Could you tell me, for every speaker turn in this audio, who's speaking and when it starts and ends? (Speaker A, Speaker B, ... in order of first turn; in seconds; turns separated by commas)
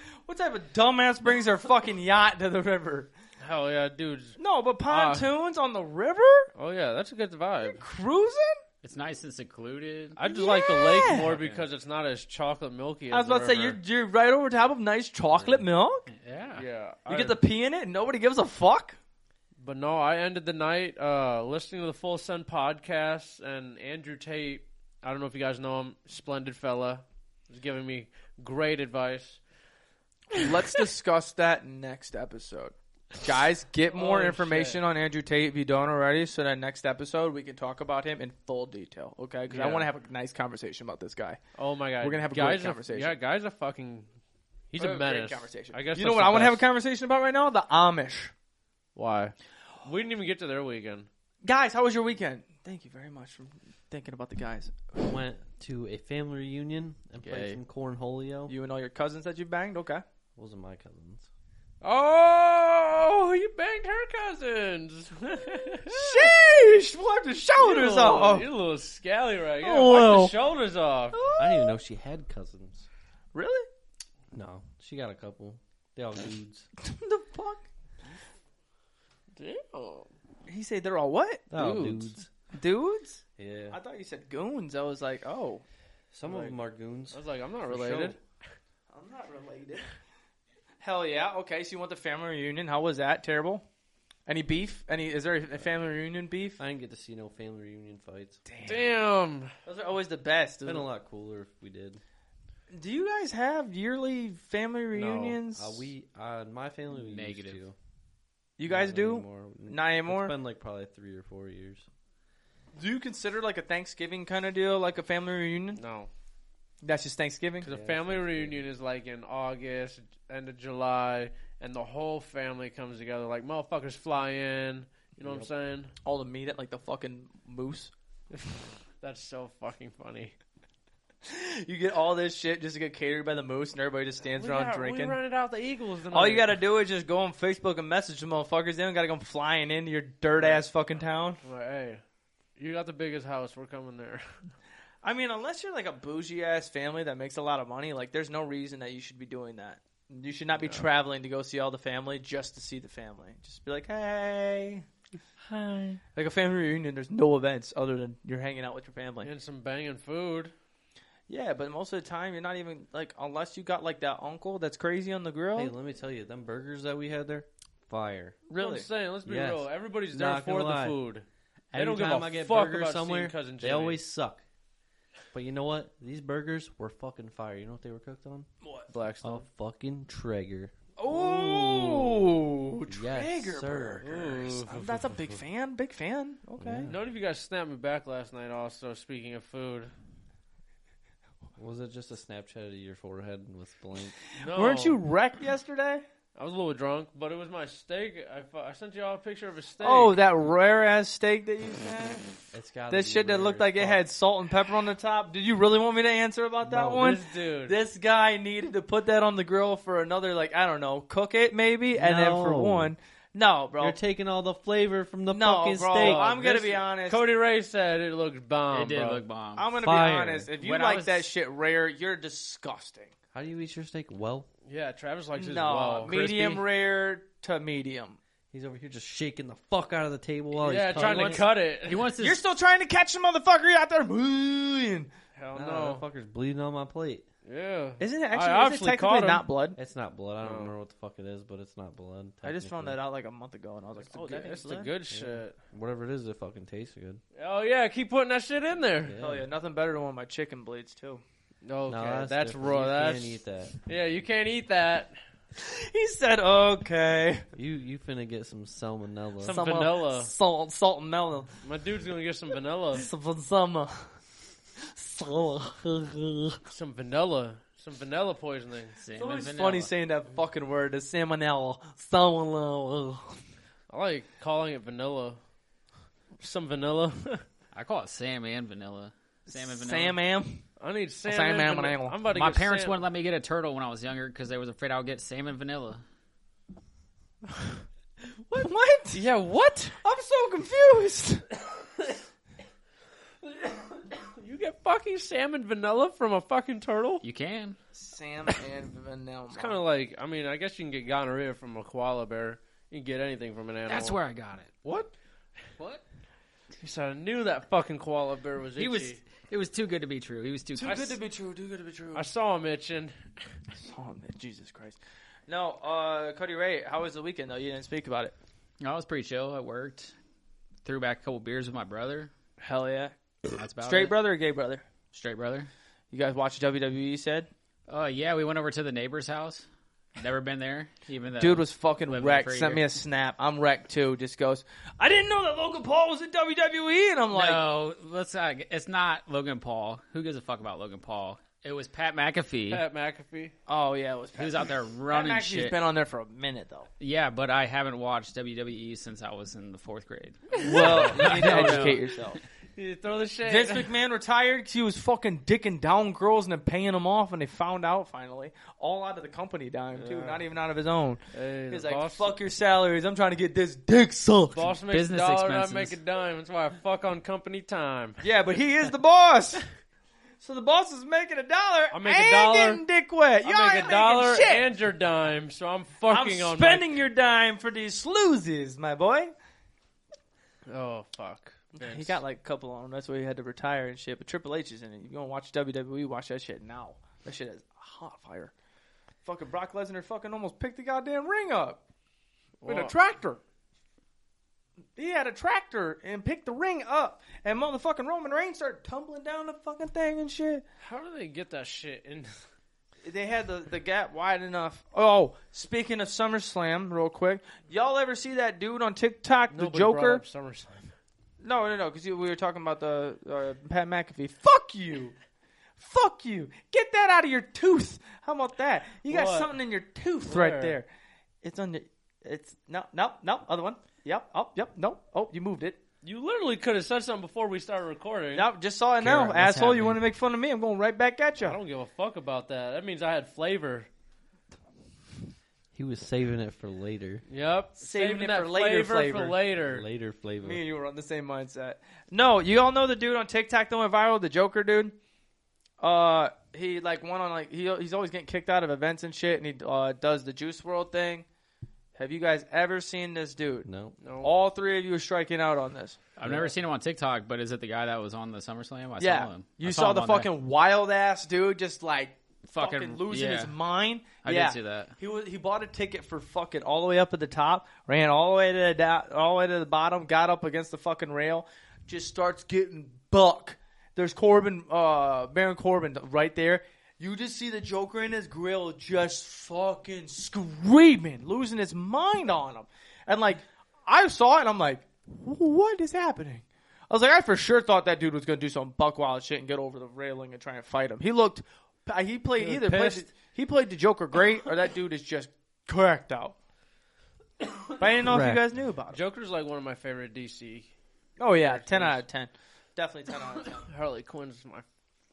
Speaker A: 0.2-3.1, Speaker B: 3.4-5.3, Speaker A: 4.4-6.5, Speaker B: 6.5-7.8, Speaker A: 7.7-8.6, Speaker C: 8.8-10.2, Speaker B: 10.2-13.8, Speaker A: 10.3-11.3, Speaker C: 11.1-11.7, Speaker A: 13.1-16.1, Speaker C: 16.1-16.7, Speaker B: 16.5-17.4, Speaker A: 17.1-19.0, Speaker B: 19.6-29.4, Speaker A: 30.3-41.4, Speaker B: 33.9-34.8, Speaker B: 39.5-39.9, Speaker B: 41.5-44.1, Speaker A: 42.0-43.1, Speaker B: 44.7-46.7, Speaker A: 44.8-48.3, Speaker B: 49.0-51.1, Speaker A: 51.5-55.1, Speaker D: 55.0-58.5, Speaker B: 57.2-57.6, Speaker A: 58.5-60.0, Speaker D: 60.4-61.3, Speaker B: 61.8-66.3, Speaker A: 65.9-68.5, Speaker B: 67.6-71.2, Speaker A: 69.6-70.3, Speaker A: 71.1-71.8, Speaker D: 71.3-72.8, Speaker A: 73.3-73.7, Speaker D: 74.3-76.7, Speaker A: 76.8-77.6, Speaker B: 79.3-80.1, Speaker A: 80.5-81.9, Speaker D: 81.5-82.3, Speaker B: 81.6-82.1, Speaker A: 82.5-85.6, Speaker D: 83.4-83.8, Speaker D: 86.1-88.2, Speaker B: 86.2-86.6, Speaker B: 87.1-88.2, Speaker A: 88.9-89.9, Speaker A: 90.8-93.7, Speaker A: 94.3-96.6, Speaker D: 96.6-98.4, Speaker A: 98.5-98.9, Speaker B: 98.7-99.5, Speaker A: 99.7-100.9, Speaker D: 100.7-102.0, Speaker A: 102.7-105.8, Speaker B: 104.9-105.4, Speaker D: 105.5-107.8, Speaker C: 107.1-107.6, Speaker A: 108.6-110.3, Speaker D: 108.7-111.8, Speaker A: 112.8-115.8, Speaker B: 115.8-116.1, Speaker A: 116.8-117.7, Speaker B: 117.6-125.9, Speaker D: 117.7-118.7, Speaker D: 125.2-125.5, Speaker A: 126.0-127.9, Speaker B: 128.3-130.3, Speaker A: 131.2-135.2, Speaker B: 134.3-136.5, Speaker A: 136.1-141.4, Speaker B: 140.4-140.7, Speaker B: 141.4-142.0, Speaker B: 142.6-144.2, Speaker A: 145.0-154.8, Speaker B: 155.7-156.0, Speaker A: 156.0-159.3, Speaker B: 159.2-160.5, Speaker A: 161.3-165.7, Speaker D: 165.5-168.4, Speaker A: 168.5-168.9, Speaker B: 168.6-174.0, Speaker D: 169.2-171.0, Speaker D: 171.7-174.4, Speaker D: 175.3-178.5, Speaker A: 178.6-178.9, Speaker B: 178.9-179.4, Speaker D: 179.2-180.7, Speaker A: 181.0-186.9, Speaker B: 181.2-181.9, Speaker D: 182.9-184.1, Speaker B: 184.0-184.8, Speaker D: 186.6-187.0, Speaker B: 186.8-189.9, Speaker D: 191.6-194.2, Speaker B: 194.4-195.0, Speaker A: 194.5-196.0, Speaker B: 196.3-200.2, Speaker A: 199.8-202.4, Speaker D: 202.5-204.0, Speaker A: 202.9-214.0, Speaker D: 206.7-207.0, Speaker B: 206.9-207.8, Speaker D: 211.9-212.9, Speaker D: 213.8-216.3, Speaker A: 215.3-217.2, Speaker B: 215.9-219.2, Speaker C: 218.7-219.7, Speaker A: 219.6-223.1, Speaker D: 219.8-220.5, Speaker C: 220.5-221.3, Speaker D: 223.3-224.5, Speaker B: 224.7-226.1, Speaker A: 225.3-228.2, Speaker C: 226.0-226.6, Speaker D: 228.5-231.5, Speaker B: 230.5-232.1, Speaker C: 231.0-232.4, Speaker A: 232.2-235.1, Speaker B: 235.3-236.0, Speaker D: 235.5-237.3, Speaker B: 237.4-239.4, Speaker A: 238.0-239.8, Speaker D: 239.8-243.0, Speaker B: 240.4-240.7, Speaker A: 242.4-244.9, Speaker B: 244.0-245.6, Speaker D: 245.1-247.2, Speaker B: 247.3-249.2, Speaker D: 249.0-249.4, Speaker A: 249.2-251.2, Speaker B: 251.6-255.1, Speaker D: 251.9-253.8, Speaker A: 255.6-257.5, Speaker D: 257.5-259.6, Speaker B: 259.4-260.3, Speaker A: 259.4-261.5, Speaker B: 261.6-263.1, Speaker A: 263.0-264.1, Speaker A: 264.8-266.6, Speaker B: 266.7-269.0, Speaker C: 269.0-269.9, Speaker A: 269.1-273.4, Speaker B: 273.9-275.4, Speaker B: 276.4-277.4, Speaker C: 277.7-280.2, Speaker A: 279.5-280.6, Speaker B: 280.8-283.0, Speaker A: 281.2-282.2, Speaker C: 282.3-286.0, Speaker A: 288.5-289.2, Speaker B: 288.6-290.0, Speaker A: 290.0-291.5, Speaker B: 293.4-297.2, Speaker C: 297.2-297.8, Speaker A: 297.9-299.8, Speaker B: 299.5-304.2, Speaker C: 303.9-304.8, Speaker B: 306.8-309.2, Speaker C: 308.8-311.2, Speaker A: 310.8-312.3, Speaker B: 310.8-311.1, Speaker B: 312.1-313.1, Speaker A: 313.8-318.4, Speaker C: 318.8-320.1, Speaker C: 320.9-322.3, Speaker A: 322.6-323.1, Speaker C: 323.6-324.2, Speaker A: 323.8-324.9, Speaker C: 325.1-325.7, Speaker A: 326.1-327.5, Speaker C: 327.9-332.8, Speaker A: 331.4-337.6, Speaker C: 337.3-342.8, Speaker B: 342.7-343.6, Speaker A: 343.7-346.9, Speaker C: 344.4-345.8, Speaker C: 347.0-352.0, Speaker B: 350.5-351.9, Speaker A: 350.6-352.4, Speaker B: 352.8-353.9, Speaker A: 353.4-364.8, Speaker B: 359.9-360.4, Speaker B: 361.3-362.4, Speaker B: 364.5-368.2, Speaker C: 364.9-366.0, Speaker A: 368.2-369.6, Speaker A: 370.4-374.7, Speaker B: 371.9-372.8, Speaker B: 373.4-376.9, Speaker A: 376.1-379.3, Speaker B: 380.7-382.2, Speaker A: 381.8-388.5, Speaker A: 389.2-391.8, Speaker B: 392.6-392.9, Speaker A: 392.6-393.4, Speaker A: 395.0-400.6, Speaker B: 400.8-402.3, Speaker A: 403.0-410.2, Speaker B: 409.5-410.9, Speaker A: 411.4-415.2, Speaker A: 415.8-420.9, Speaker B: 419.1-419.5, Speaker B: 420.3-420.8, Speaker A: 421.4-425.8, Speaker B: 426.0-428.5, Speaker A: 428.3-431.6, Speaker C: 429.0-430.0, Speaker B: 431.4-433.9, Speaker D: 435.7-437.2, Speaker B: 437.3-439.9, Speaker A: 437.8-439.4, Speaker D: 439.6-440.6, Speaker A: 440.4-445.0, Speaker A: 445.8-451.2, Speaker A: 452.0-453.7, Speaker D: 453.6-454.0, Speaker B: 454.0-454.3, Speaker A: 454.2-456.0, Speaker C: 456.2-460.3, Speaker D: 456.2-456.5, Speaker A: 459.0-496.4, Speaker C: 462.5-463.6, Speaker C: 464.2-464.9, Speaker D: 492.4-493.0, Speaker A: 497.8-499.0, Speaker D: 498.1-498.4, Speaker B: 498.9-500.7, Speaker A: 501.2-503.6, Speaker B: 501.4-502.0, Speaker B: 503.5-504.6